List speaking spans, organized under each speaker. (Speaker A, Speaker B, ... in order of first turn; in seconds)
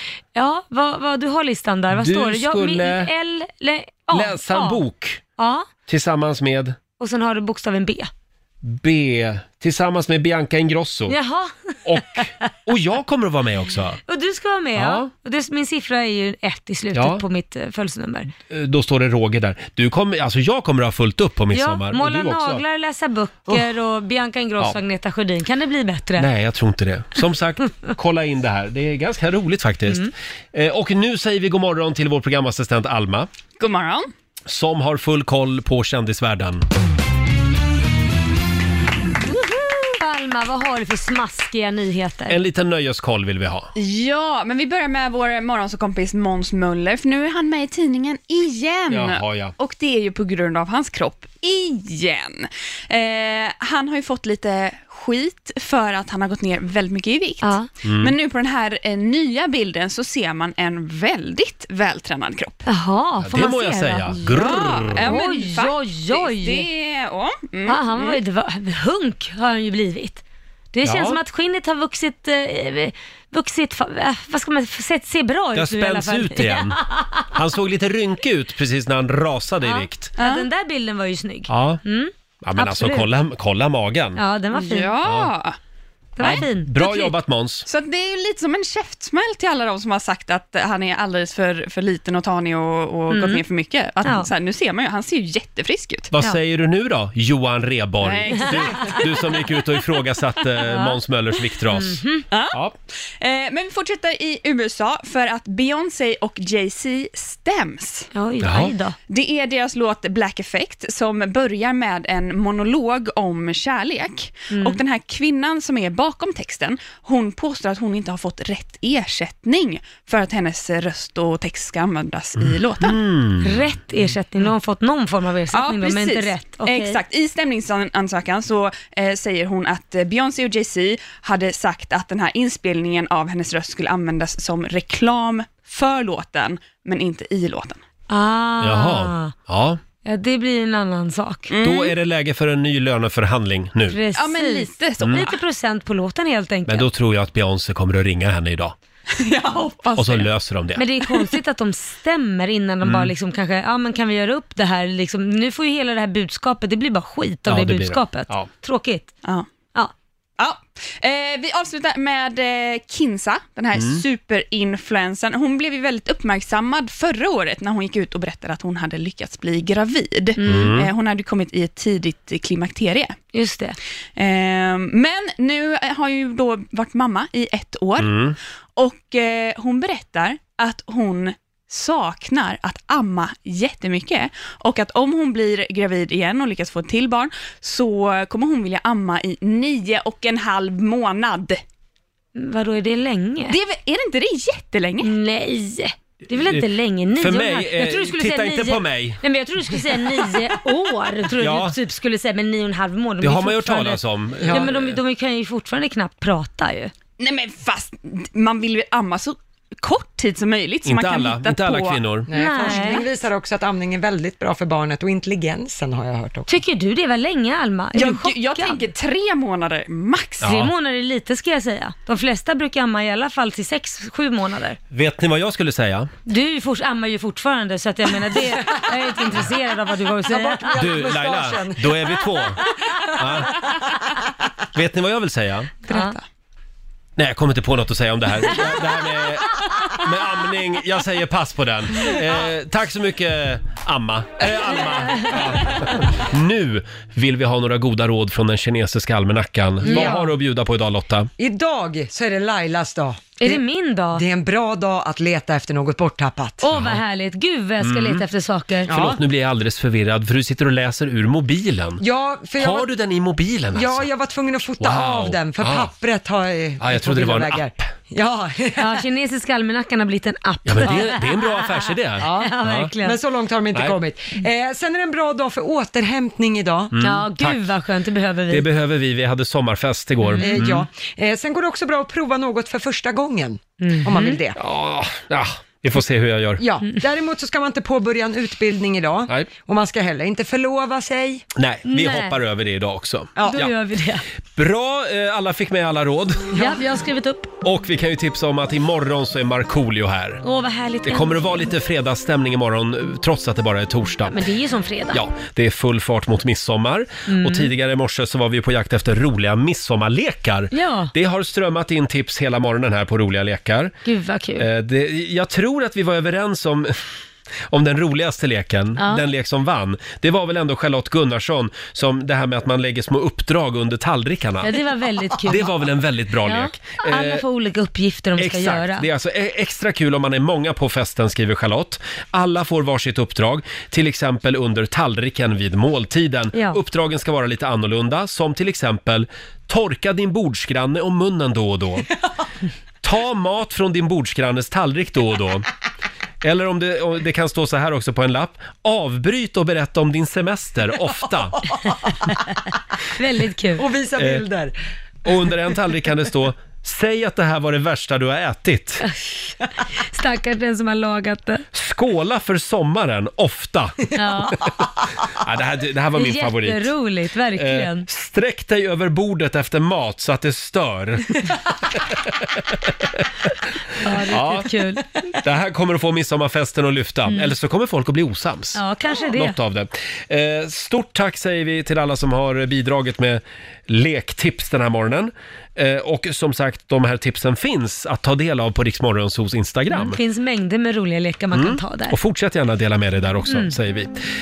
Speaker A: 0.3-4.8, 5.4-5.7, 7.0-8.1, 11.1-12.5, 14.1-18.3, 21.5-26.3, 39.2-42.4, 57.4-57.7, 62.6-66.7, 67.7-70.2, 70.7-77.3, 79.6-83.1, 84.2-85.0, 86.2-87.1, 93.1-93.4, 94.0-94.3, 98.3-99.0, 100.6-101.0, 101.7-102.2, 108.1-109.0, 114.5-114.8, 123.4-127.0, 138.1-139.3, 140.0-141.5, 143.9-146.9, 150.8-159.1, 170.4-170.7, 173.3-173.8, 192.3-193.6, 195.0-206.9, 212.3-213.1, 216.5-218.9, 220.4-224.8, 226.2-230.7, 235.9-236.2, 244.5-245.6, 249.8-250.3, 253.4-254.2, 256.6-258.9, 268.8-273.2, 277.0-278.6, 280.2-280.6, 283.8-284.4, 291.9-292.4, 293.5-294.2, 296.5-297.5, 300.4-301.7, 304.3-305.2, 307.3-307.7, 310.7-311.1, 314.0-314.7, 319.0-319.2, 324.6-325.9, 326.4-329.1, 353.1-353.8, 359.1-361.6, 364.1-364.7, 366.1-368.1, 374.0-375.1, 377.3-377.5, 378.7-379.6, 389.9-392.2, 393.5-393.7
Speaker B: 1.9-3.1, 4.1-5.2, 5.9-6.8, 8.6-11.2, 11.8-14.0, 14.8-15.1, 16.9-17.2, 18.5-22.6, 26.2-33.3, 34.5-36.6, 42.3-43.7, 48.9-49.5, 57.8-58.1, 63.2-65.1, 70.8-71.2, 75.5-76.8, 77.3-80.1, 81.5-81.8, 82.4-84.2, 85.0-85.3, 86.2-87.7, 96.1-102.7, 108.4-108.7, 122.4-123.5, 138.6-139.8, 141.6-144.0, 145.0-145.3, 146.7-148.7, 149.9-150.8, 152.8-153.1, 157.4-158.5, 163.7-164.0, 170.4-170.9, 178.0-178.3, 196.3-196.6, 197.2-199.2, 201.4-201.8, 203.2-205.0, 210.8-212.3, 220.4-220.7, 224.9-226.1, 230.7-233.5, 234.7-235.7, 237.2-251.3, 256.7-257.0, 257.8-258.2, 258.9-262.0, 262.6-264.1, 264.8-265.9, 266.8-267.9, 270.6-272.9, 276.9-277.6, 278.5-280.8, 284.5-286.6, 291.5-293.7, 294.6-296.6, 297.6-300.4, 301.0-304.4, 305.1-313.9, 314.6-317.0, 317.7-324.8, 325.4-327.4, 328.4-342.1, 343.0-345.7, 346.4-351.6, 354.2-354.4, 355.2-359.1, 361.7-364.0, 365.2-366.9, 367.6-373.5, 374.0-374.8, 375.3-390.2, 391.5-394.1
Speaker C: 33.6-34.1, 43.7-62.6, 64.3-68.2, 80.2-80.5, 84.5-85.6, 86.2-87.1, 87.6-96.1, 98.0-99.6, 102.3-108.1, 109.1-123.0, 125.5-137.8, 141.5-141.9, 144.1-145.4, 149.1-150.3, 151.0-151.3, 159.2-159.5, 160.4-173.2, 174.2-178.2, 178.8-191.6, 193.5-195.1, 207.2-212.1, 212.6-213.0, 217.9-220.5, 235.8-236.2
Speaker D: 204.4-204.7, 212.3-216.5, 228.6-228.9, 230.2-232.2, 249.8-250.3, 251.4-253.6, 254.1-256.7, 258.9-259.2, 262.0-262.9, 263.7-269.0, 272.2-276.9, 280.4-284.6, 286.6-291.4, 293.4-293.6, 296.5-296.8, 351.6-352.0, 353.8-354.7